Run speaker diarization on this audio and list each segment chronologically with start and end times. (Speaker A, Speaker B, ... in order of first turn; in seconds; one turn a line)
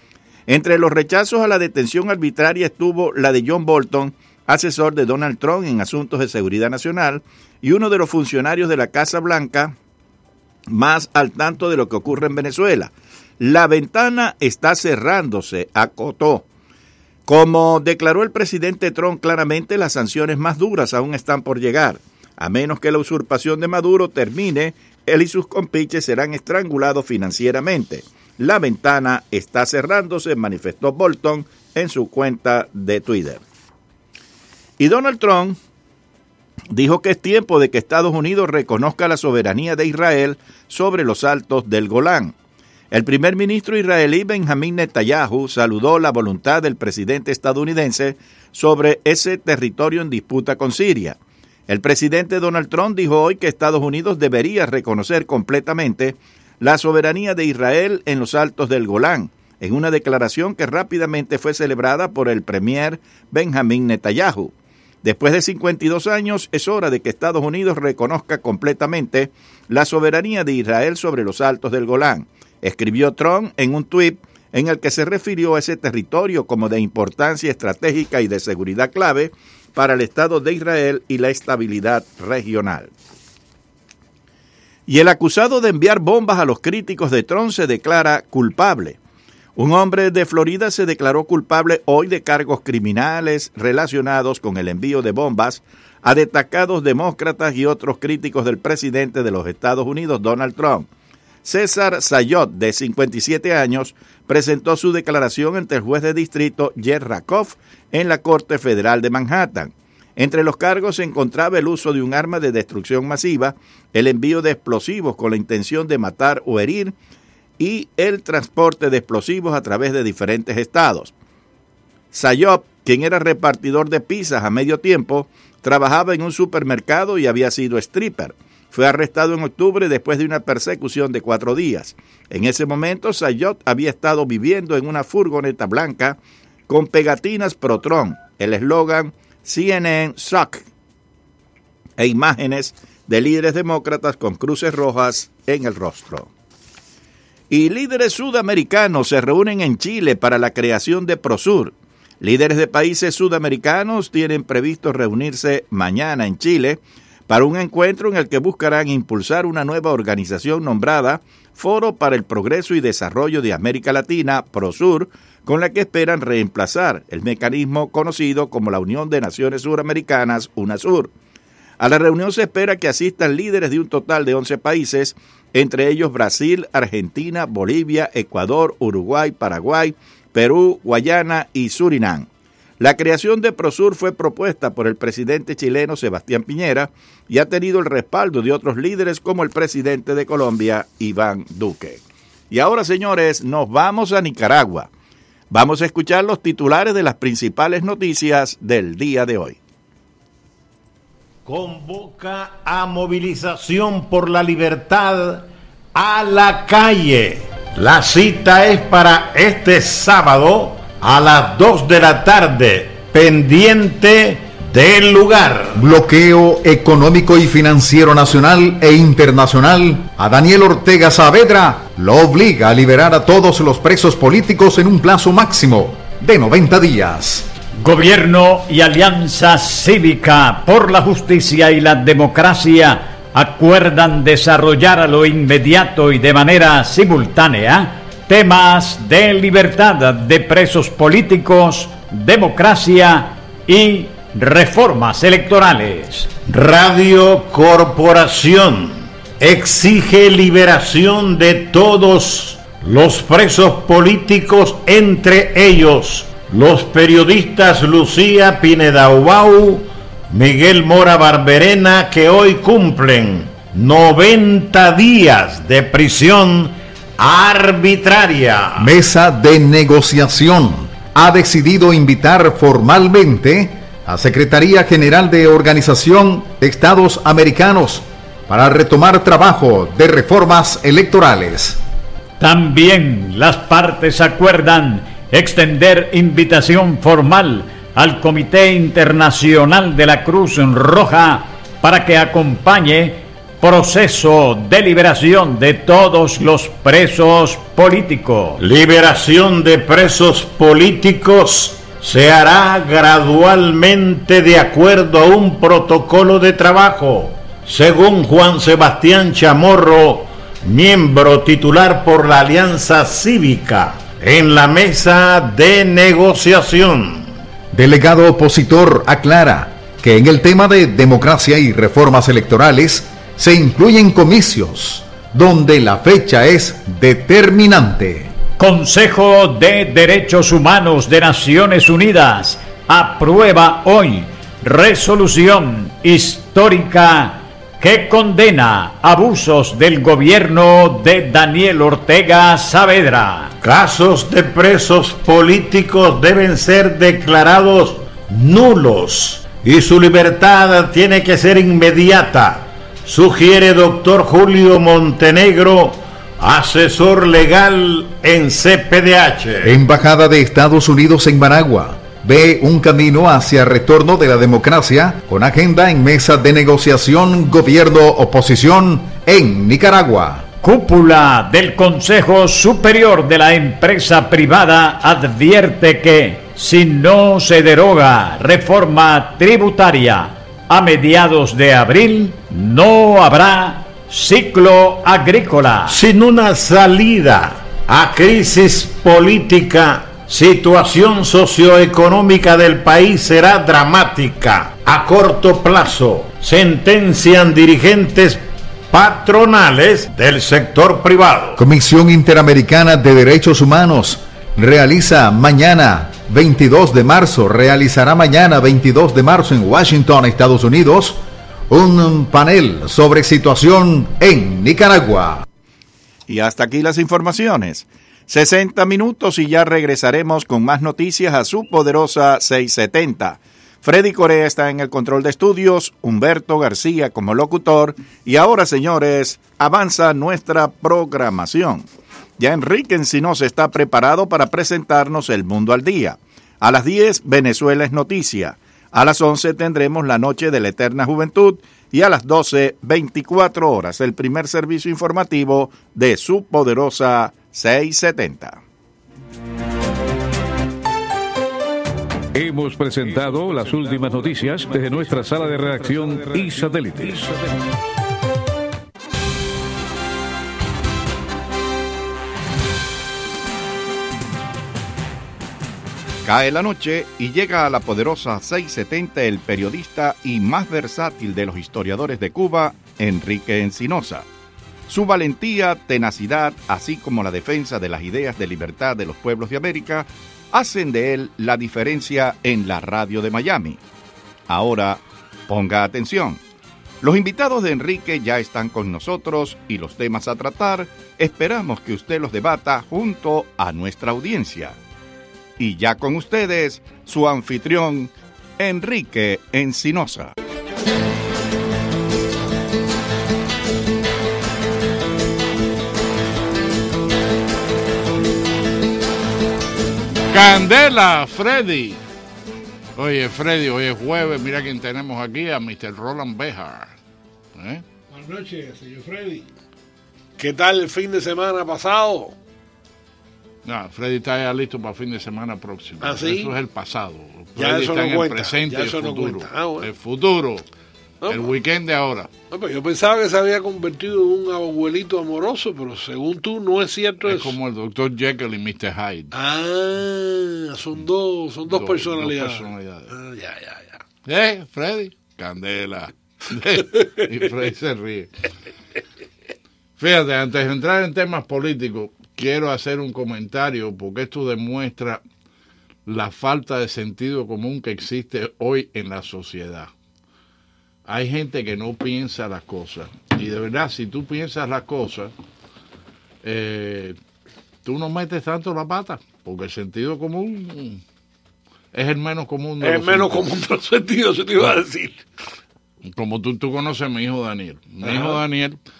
Speaker A: 0.5-9.8
Speaker A: 10.7-16.4
Speaker A: 17.3-33.4
Speaker A: 34.8-35.6
Speaker A: 36.7-42.3
Speaker A: 42.9-51.2
Speaker A: 51.7-82.9
Speaker A: 84.9-89.0
Speaker A: 89.6-100.9
Speaker A: 101.5-117.0
Speaker A: 117.6-121.1
Speaker A: 122.1-140.6
Speaker A: 142.0-146.3
Speaker A: 147.5-171.1
Speaker A: 171.8-182.3
Speaker A: 182.8-194.9
Speaker A: 195.5-199.6
Speaker B: 201.4-215.8
Speaker C: 215.7-227.5
Speaker D: 227.8-246.3
Speaker B: 246.4-268.9
Speaker C: 268.8-281.8
Speaker D: 282.4-298.6
Speaker B: 298.6-317.3
Speaker C: 317.7-328.3
Speaker D: 328.6-343.5
Speaker B: 343.6-359.7
Speaker C: 359.6-370.5
Speaker D: 370.6-386.0
Speaker B: 385.9-401.6
Speaker C: 401.6-415.4
Speaker A: 416.3-431.9
Speaker A: 432.4-448.6
Speaker E: 452.4-457.5
Speaker A: 466.2-474.3
Speaker A: 474.9-483.8
Speaker A: 484.5-486.4
Speaker A: 487.0-494.8
Speaker A: 495.6-500.3
Speaker F: 510.3-512.0
Speaker F: 513.0-517.0
Speaker F: 517.6-517.8
Speaker G: 518.1-519.5
Speaker G: 520.4-522.4
Speaker F: 523.6-530.6
Speaker G: 526.0-526.5
Speaker G: 527.6-529.9
Speaker G: 531.2-531.5
Speaker F: 531.3-532.3
Speaker G: 532.5-537.6
Speaker F: 537.2-539.3
Speaker G: 539.3-544.0
Speaker F: 541.7-543.1
Speaker F: 544.2-548.3
Speaker F: 550.0-555.2
Speaker F: 556.1-559.9
Speaker F: 561.1-565.3
Speaker F: 566.4-567.2
Speaker F: 567.9-571.0
Speaker F: 571.9-573.4
Speaker G: 572.8-575.2
Speaker F: 576.1-578.8
Speaker G: 578.0-578.4